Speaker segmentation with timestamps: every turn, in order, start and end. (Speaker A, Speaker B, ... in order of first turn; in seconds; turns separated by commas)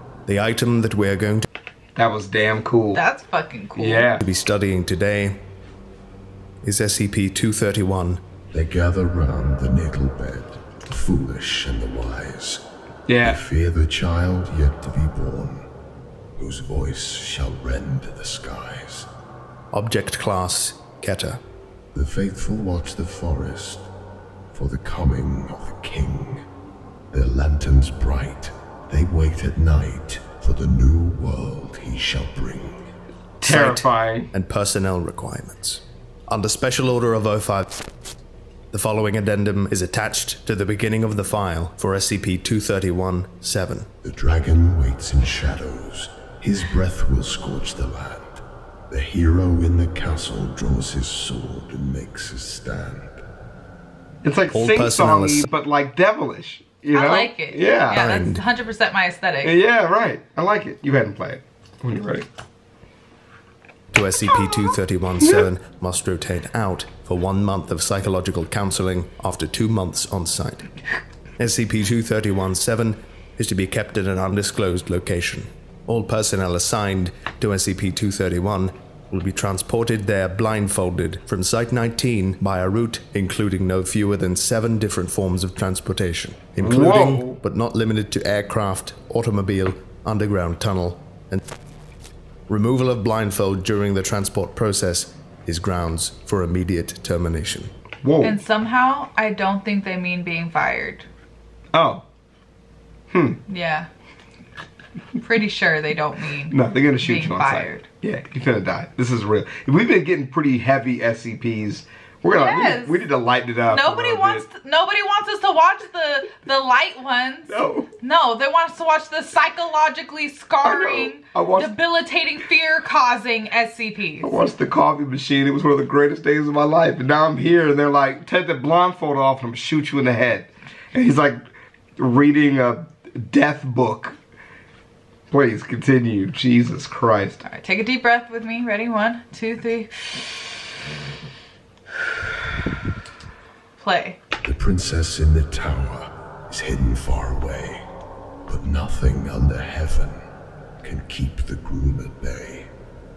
Speaker A: 0.2-1.4, Speaker B: 1.9-3.0, Speaker C: 2.9-4.1, Speaker B: 3.8-4.2, Speaker A: 4.2-5.4, Speaker A: 6.6-8.2, Speaker D: 8.5-12.6, Speaker B: 13.1-13.4, Speaker D: 13.2-15.7, Speaker D: 16.4-19.1, Speaker A: 19.7-21.4, Speaker D: 21.9-23.9, Speaker D: 24.5-26.4, Speaker D: 27.1-32.9, Speaker B: 33.4-34.3, Speaker A: 33.4-37.8, Speaker A: 38.7-43.9, Speaker D: 44.0-53.2, Speaker B: 54.2-58.0, Speaker A: 54.5-55.5, Speaker C: 56.9-59.6, Speaker A: 57.9-58.4, Speaker B: 59.4-62.3, Speaker A: 63.9-70.7, Speaker A: 71.4-91.4, Speaker B: 86.6-87.4, Speaker A: 92.5-97.7, Speaker B: 98.0-98.4, Speaker C: 98.2-101.0, Speaker B: 101.7-102.0, Speaker B: 103.1-103.4, Speaker C: 103.5-103.9, Speaker C: 105.2-107.9, Speaker B: 106.5-114.4, Speaker C: 112.2-113.0, Speaker C: 113.7-124.3, Speaker B: 117.5-117.9, Speaker B: 120.6-121.7, Speaker B: 124.2-131.4, Speaker B: 132.0-134.2, Speaker B: 135.3-137.4, Speaker C: 137.4-140.2, Speaker C: 143.8-144.2, Speaker D: 144.4-147.8, Speaker D: 148.4-150.2, Speaker D: 150.8-152.7